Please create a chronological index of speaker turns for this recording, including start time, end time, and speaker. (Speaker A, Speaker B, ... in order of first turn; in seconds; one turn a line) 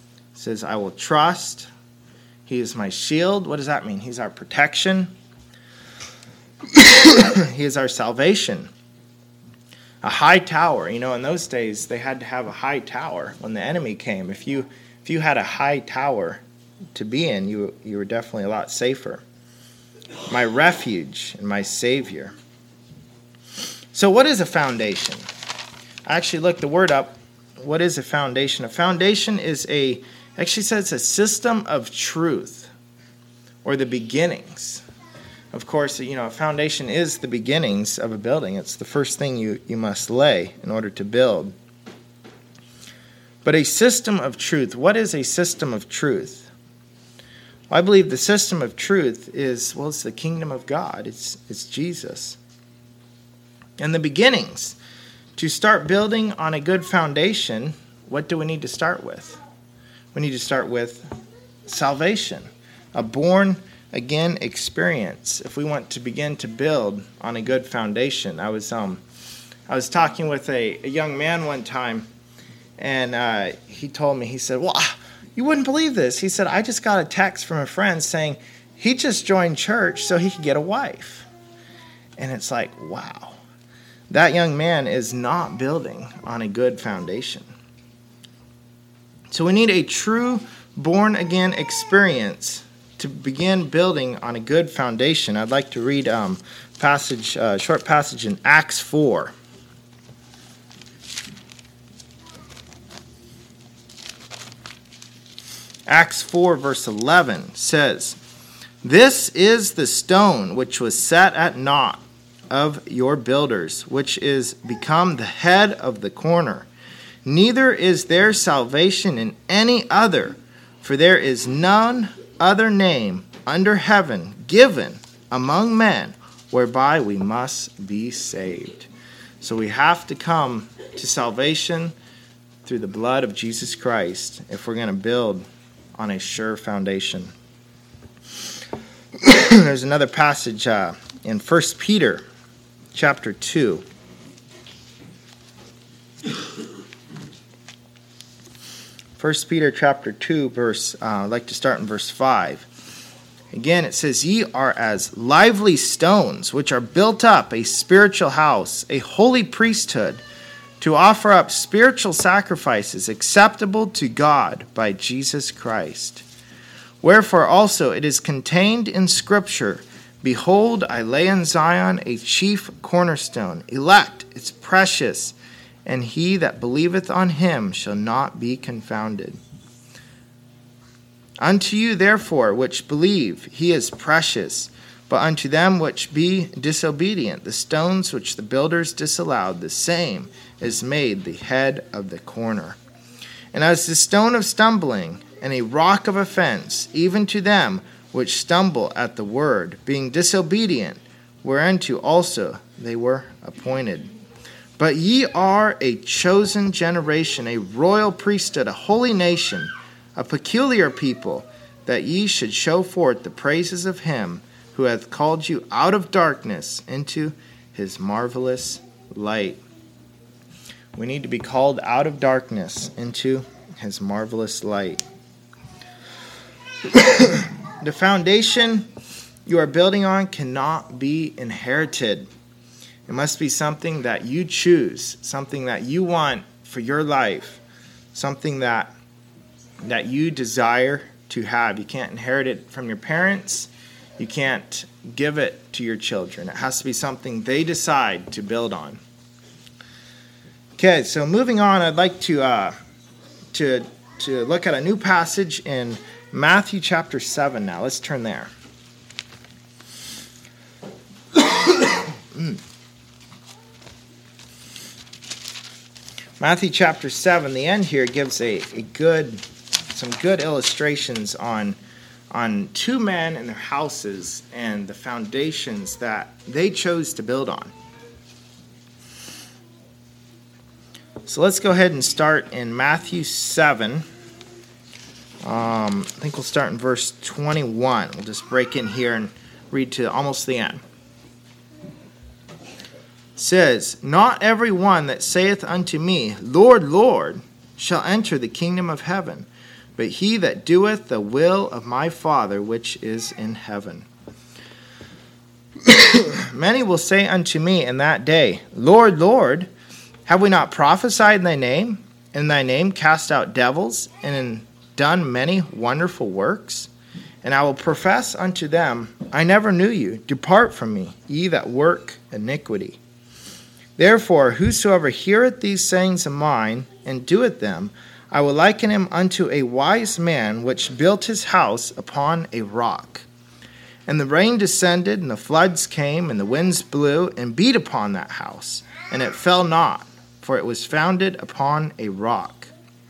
Speaker A: 0.3-1.7
Speaker A: 2.5-5.1
Speaker A: 6.7-8.7
Speaker A: 10.0-16.4
Speaker A: 16.9-19.2
Speaker A: 20.3-22.3
Speaker A: 23.9-25.3
Speaker A: 26.1-32.7
Speaker A: 33.6-34.8
Speaker A: 35.5-41.5
Speaker A: 43.4-46.5
Speaker A: 47.7-52.4
Speaker A: 53.8-54.8
Speaker A: 55.4-59.4
Speaker A: 60.1-61.1
Speaker A: 61.7-69.0
Speaker A: 69.7-72.1
Speaker A: 72.8-81.3
Speaker A: 82.2-83.4
Speaker A: 84.1-87.5
Speaker A: 89.3-99.3
Speaker A: 105.9-108.2
Speaker A: 108.8-116.7
Speaker A: 117.3-128.9
Speaker A: 129.4-131.9
Speaker A: 132.7-135.4
Speaker A: 136.0-137.3
Speaker A: 139.2-142.2
Speaker A: 142.9-143.8
Speaker A: 149.2-152.7
Speaker A: 153.5-160.2
Speaker A: 160.8-166.2
Speaker A: 167.0-179.4
Speaker A: 181.4-192.8
Speaker A: 193.5-204.1
Speaker A: 204.8-219.6
Speaker A: 220.9-225.0
Speaker A: 226.9-228.9
Speaker A: 229.5-232.3
Speaker A: 233.1-237.6
Speaker A: 238.1-238.9
Speaker A: 239.8-249.0
Speaker A: 250.8-252.8
Speaker A: 253.5-258.5
Speaker A: 261.8-262.6
Speaker A: 266.4-271.8
Speaker A: 272.3-277.7
Speaker A: 281.3-284.1
Speaker A: 285.4-290.8
Speaker A: 293.4-304.1
Speaker A: 305.8-309.7
Speaker A: 310.3-316.9
Speaker A: 317.4-323.0
Speaker A: 324.0-333.3
Speaker A: 334.1-342.7